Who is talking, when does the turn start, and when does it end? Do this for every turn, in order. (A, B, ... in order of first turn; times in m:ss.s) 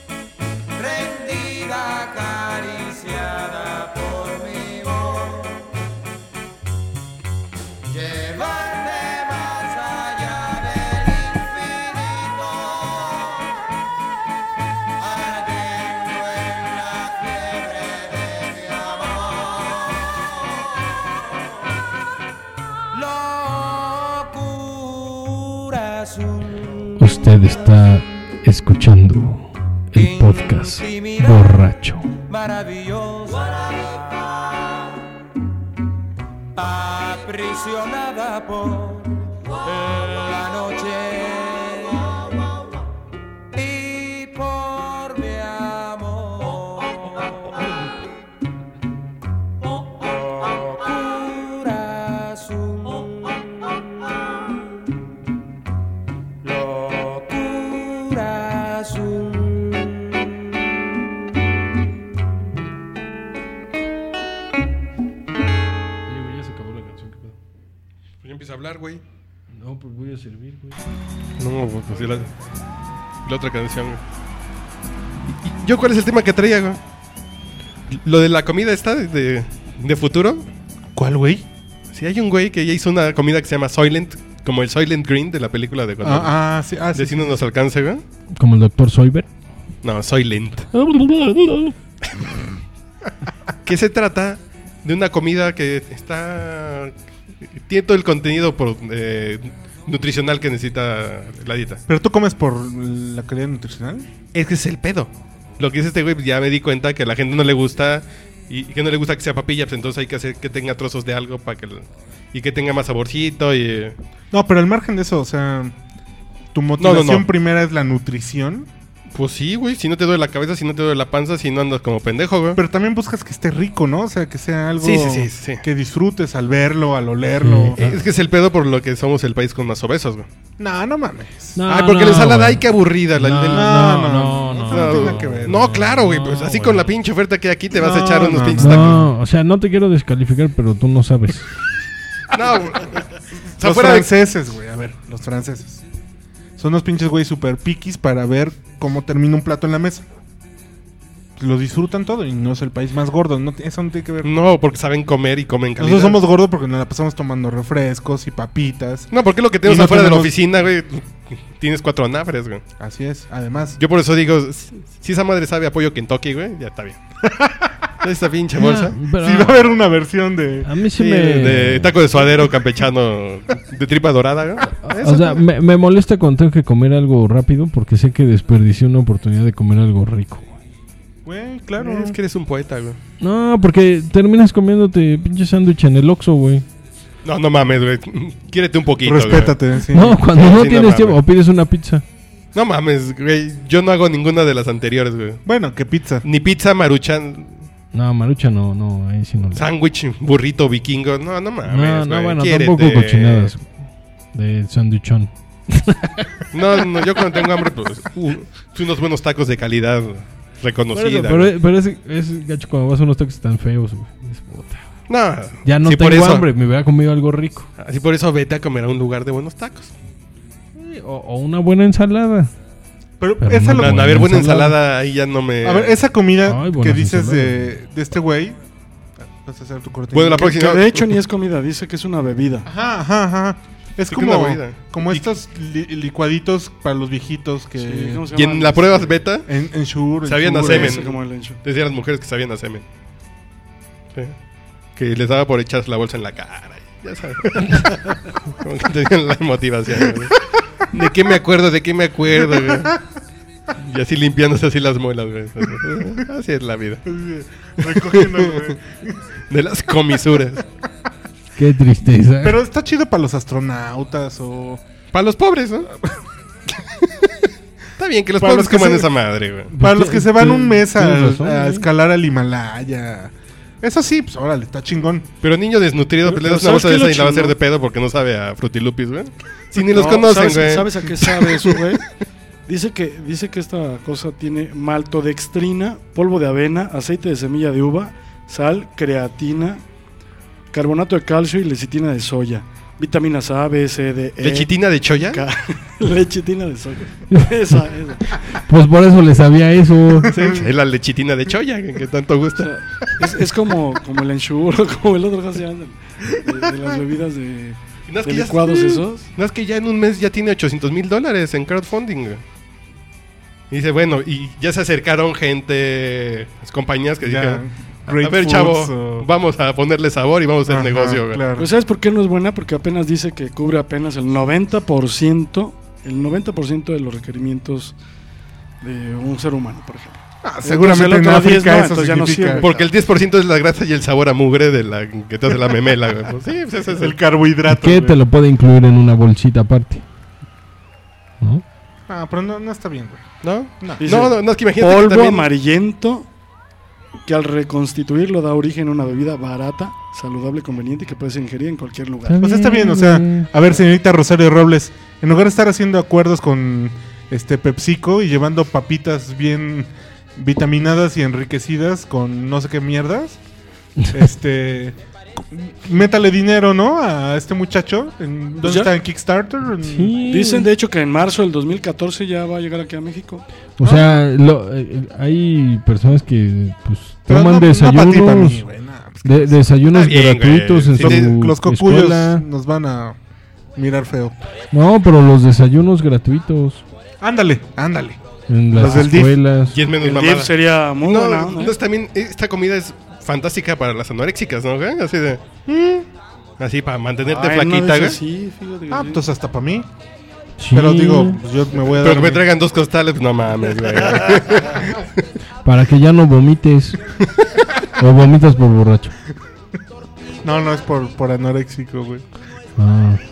0:00.8-0:05.7 A
0:07.9-0:13.5 A
0:15.0-0:20.1 A
0:22.9-0:26.6 A
0:27.0-0:32.1 B
0:30.0-0:31.2 A
0:32.3-0:34.8 A
0:36.6-0:42.3 A
0:43.6-0:47.3 A
0:49.8-0:53.1 A
0:56.4-1:00.0 A
1:06.1-1:07.4 B
1:08.2-1:09.0 C
1:09.5-1:10.8 B
1:11.4-1:12.3 C
1:13.2-1:14.0 C
1:15.3-1:16.8 C
1:17.9-1:20.5 C
1:21.0-1:21.5 D
1:21.9-1:26.4 C
1:26.0-1:27.4 D
1:26.9-1:28.0 C
1:28.3-1:29.3 B
1:29.8-1:30.7 C
1:30.7-1:31.8 B
1:33.6-1:36.9 C
1:37.5-1:41.8 C
1:41.9-1:44.1 D
1:44.3-1:54.0 C
1:54.3-1:55.8 D
1:56.5-1:58.7 D
1:56.8-1:57.3 C
1:59.1-2:02.6 C
2:02.6-2:07.8 D
2:04.8-2:05.6 C
2:07.4-2:08.0 B
2:07.8-2:10.3 C
2:10.6-2:11.6 D
2:11.6-2:16.9 B
2:11.7-2:14.0 C
2:13.5-2:15.7 D
2:14.7-2:19.0 C
2:17.7-2:19.1 D
2:18.6-2:21.5 B
2:22.3-2:24.1 C
2:23.6-2:25.8 D
2:26.6-2:30.1 D
2:31.4-2:34.3 D
2:34.2-2:36.2 C
2:35.8-2:39.1 D
2:39.1-2:42.6 C
2:39.6-2:40.4 D
2:42.8-2:43.8 D
2:43.8-2:47.0 C
2:47.2-2:47.8 D
2:48.0-2:49.0 C
2:48.6-2:49.7 B
2:49.2-2:50.7 D
2:50.6-2:52.0 B
2:51.0-2:55.4 C
2:54.8-3:00.5 B
3:01.2-3:02.2 D
3:01.8-3:03.0 C
3:03.2-3:06.7 B
3:07.2-3:09.6 C
3:09.0-3:10.2 D
3:09.9-3:12.0 B
3:10.3-3:11.2 C
3:12.5-3:15.4 C
3:15.5-3:16.3 D
3:16.2-3:17.6 C
3:17.9-3:19.6 B
3:19.5-3:23.5 C
3:21.7-3:23.8 B
3:24.3-3:26.5 B
3:26.5-3:31.5 C
3:30.9-3:34.8 B
3:35.1-3:36.5 C
3:35.6-3:37.7 B
3:37.8-3:39.9 C
3:40.8-3:42.5 B
3:43.2-3:44.2 D
3:43.4-3:44.8 B
3:43.7-3:46.0 C
3:45.6-3:48.6 D
3:46.5-3:47.7 B
3:49.2-3:50.7 D
3:50.1-3:51.1 C
3:50.4-3:52.7 E
3:52.7-3:58.3 D
3:54.1-3:55.3 C
3:57.8-3:59.2 E
3:58.3-3:59.5 C
3:59.5-4:01.0 D
4:00.2-4:02.8 C
4:00.6-4:01.6 E
4:05.0-4:13.0 C
4:12.4-4:13.0 D
4:13.8-4:17.0 C
4:17.0-4:19.2 D
4:17.8-4:18.8 C
4:19.5-4:20.7 C
4:21.6-4:22.6 B
4:22.4-4:24.8 D
4:25.1-4:25.9 C
4:27.0-4:27.3 C
4:28.0-4:29.7 C
4:28.4-4:29.1 D
4:29.7-4:31.9 B
4:29.8-4:35.3 D
4:35.4-4:41.8 C
4:36.2-4:37.6 E
4:39.8-4:42.0 E
4:42.7-4:49.8 E
4:50.7-4:58.4 E
4:54.4-4:55.4 C
4:58.5-5:00.3 B
5:00.3-5:02.7 C
5:00.3-5:00.6 D
5:02.6-5:09.3 E
5:08.1-5:12.4 C
5:13.7-5:21.4 C
5:17.2-5:19.3 D
5:20.7-5:21.7 D
5:21.6-5:28.0 E
5:28.8-5:32.9 E
5:30.4-5:32.7 D
5:32.6-5:37.2 C
5:36.9-5:38.2 D
5:37.7-5:40.0 B
5:42.1-5:43.2 D
5:43.4-5:45.5 C
5:43.8-5:44.1 D
5:44.0-5:46.3 E
5:47.3-5:52.4 E
5:52.3-5:53.5 B
5:52.4-6:03.4 D
6:04.1-6:10.1 D
6:08.6-6:08.9 E
6:09.8-6:10.7 B
6:10.2-6:13.4 E
6:13.8-6:18.6 B
6:13.8-6:14.2 D
6:17.3-6:19.6 D
6:19.2-6:22.4 B
6:19.9-6:21.3 C
6:21.0-6:23.2 D
6:23.8-6:24.4 D
6:24.7-6:26.8 B
6:27.2-6:28.2 D
6:28.5-6:29.8 B
6:28.7-6:29.4 D
6:29.7-6:35.4 C
6:30.0-6:31.8 E
6:35.7-6:36.1 D
6:36.6-6:38.2 C
6:37.2-6:39.2 E
6:38.9-6:39.9 D
6:40.6-6:41.4 B
6:40.7-6:42.5 D
6:41.9-6:45.2 C
6:45.6-6:47.0 B
6:47.2-6:47.5 C
6:47.8-6:49.2 B
6:50.4-6:52.2 D
6:52.8-6:53.2 B